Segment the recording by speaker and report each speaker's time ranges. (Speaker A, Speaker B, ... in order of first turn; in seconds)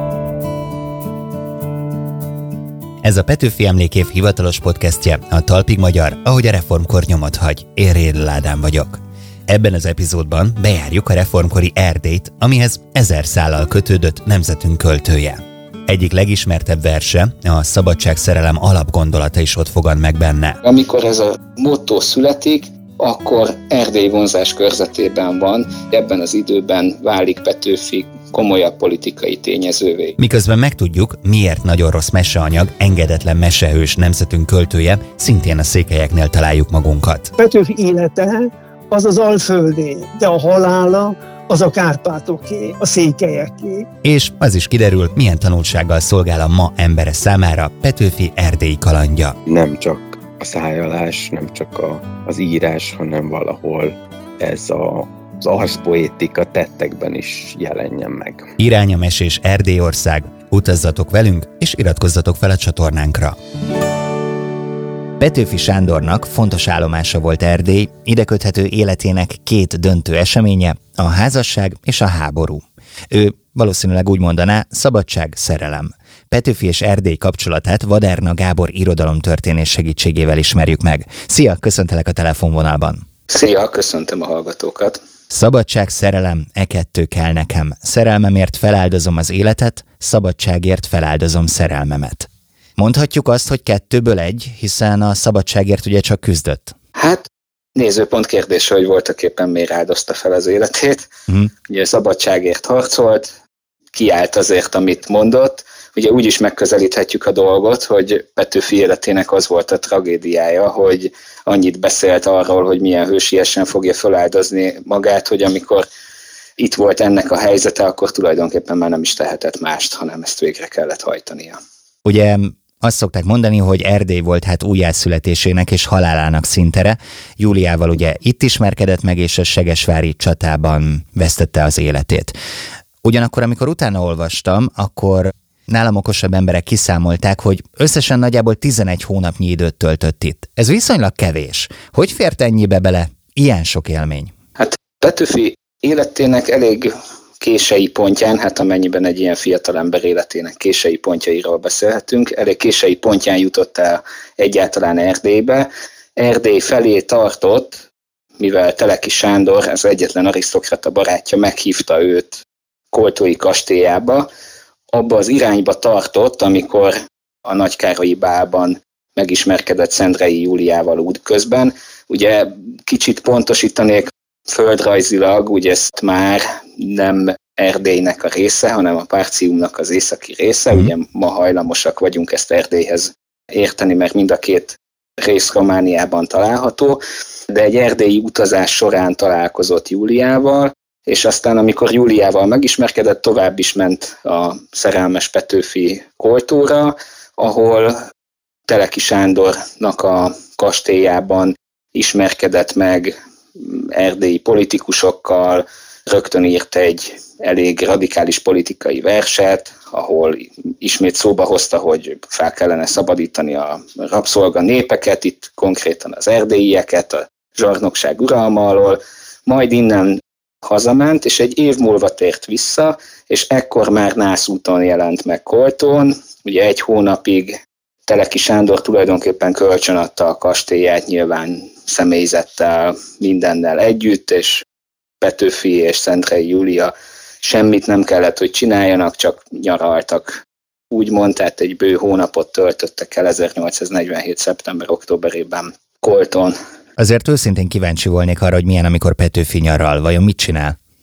Speaker A: 3.0-20.6, 30.2-37.3, 44.0-49.4, 58.6-63.4, 65.2-83.0, 85.3-96.8, 122.0-132.3, 133.0-144.3, 247.0-250.8
Speaker B: 20.6-30.2, 83.3-85.0, 97.0-101.1, 101.7-103.3, 103.9-115.9, 116.6-121.6, 144.6-157.8, 158.4-164.3, 164.9-197.9, 198.7-227.6, 228.1-234.6, 235.2-240.3, 240.9-246.6
Speaker C: 37.4-43.9
Speaker D: 49.5-58.5